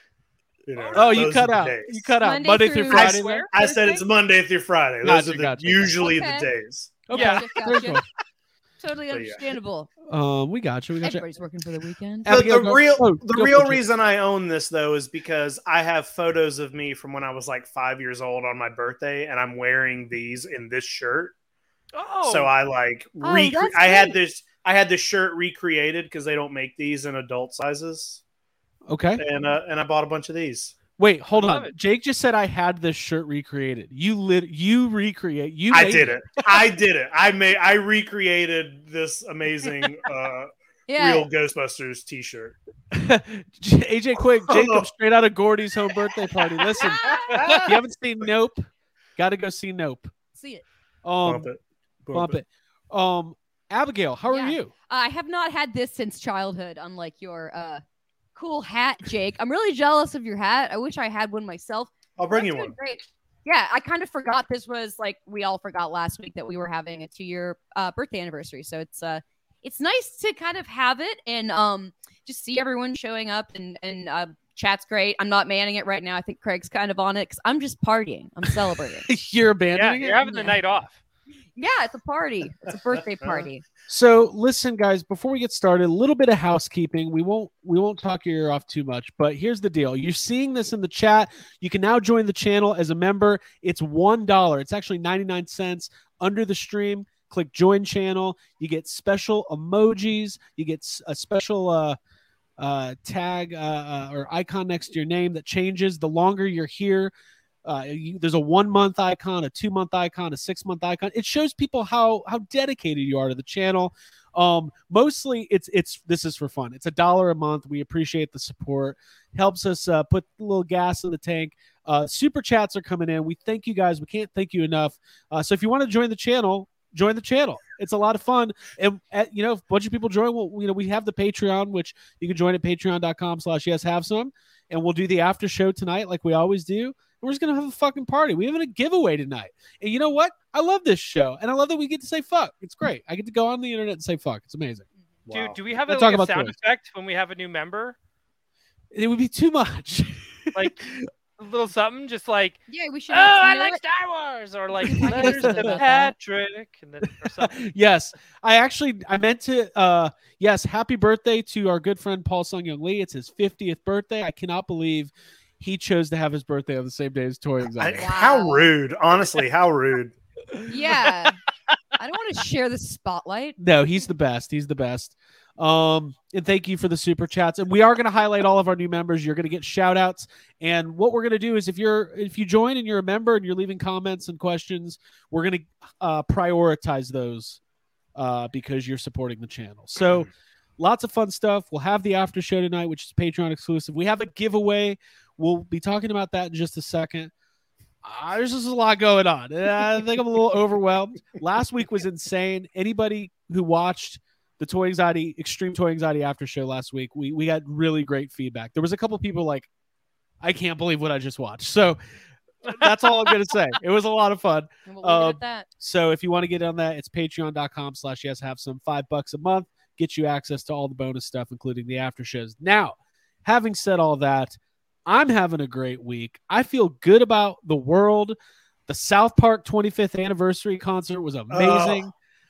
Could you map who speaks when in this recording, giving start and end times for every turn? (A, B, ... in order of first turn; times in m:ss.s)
0:00.7-0:02.1 A
0:00.7-0:01.3 B
0:00.9-0:03.5 C
0:02.2-0:04.0 D
0:02.9-0:07.0 A
0:03.1-0:03.5 B
0:05.0-0:06.0 C
0:06.0-0:06.5 D
0:07.1-0:08.0 C
0:07.1-0:08.0 D
0:07.1-0:07.4 B
0:08.8-0:09.9 D
0:09.1-0:09.4 A
0:10.1-0:11.2 C
0:11.0-0:12.3 D
0:12.2-0:13.8 C
0:12.2-0:21.3 A
0:21.9-0:22.5 B
0:22.2-0:28.2 A
0:23.2-0:24.2 D
0:28.9-0:29.2 C
0:29.2-0:30.8 A
0:31.0-0:36.7 C
0:31.3-0:31.7 B
0:35.7-0:42.6 A
0:40.9-0:41.3 D
0:42.9-0:50.1 C
0:44.5-0:44.9 A
0:46.8-0:47.5 D
0:47.3-0:47.7 A
0:50.3-0:50.6 D
0:51.0-0:51.5 C
0:51.2-0:52.4 A
0:52.1-0:54.7 C
0:54.3-0:57.8 D
0:58.4-1:19.1 D
1:02.2-1:02.7 A
1:19.1-1:20.3 C
1:19.7-1:21.0 B
1:20.2-1:20.6 D
1:21.6-1:23.6 D
1:23.9-1:42.0 C
1:42.6-1:47.1 C
1:47.6-2:24.8 C
2:25.3-2:25.6 A
2:25.3-2:28.0 B
2:25.8-2:26.5 C
2:28.9-2:31.1 C
2:30.5-2:37.7 B
2:32.7-2:33.8 D
2:34.8-2:36.1 D
2:35.1-2:35.8 C
2:37.2-2:48.1 C
2:47.8-2:50.1 A
2:48.0-2:48.7 D
2:50.7-2:51.4 D
2:52.0-2:53.6 D
2:53.6-3:07.6 C
3:08.1-3:17.3 C
3:18.0-3:29.7 C
3:30.4-3:32.0 C
3:32.6-3:48.4 C
3:32.7-3:33.4 B
3:34.8-3:35.7 D
3:48.9-3:52.1 C
3:51.5-3:52.0 A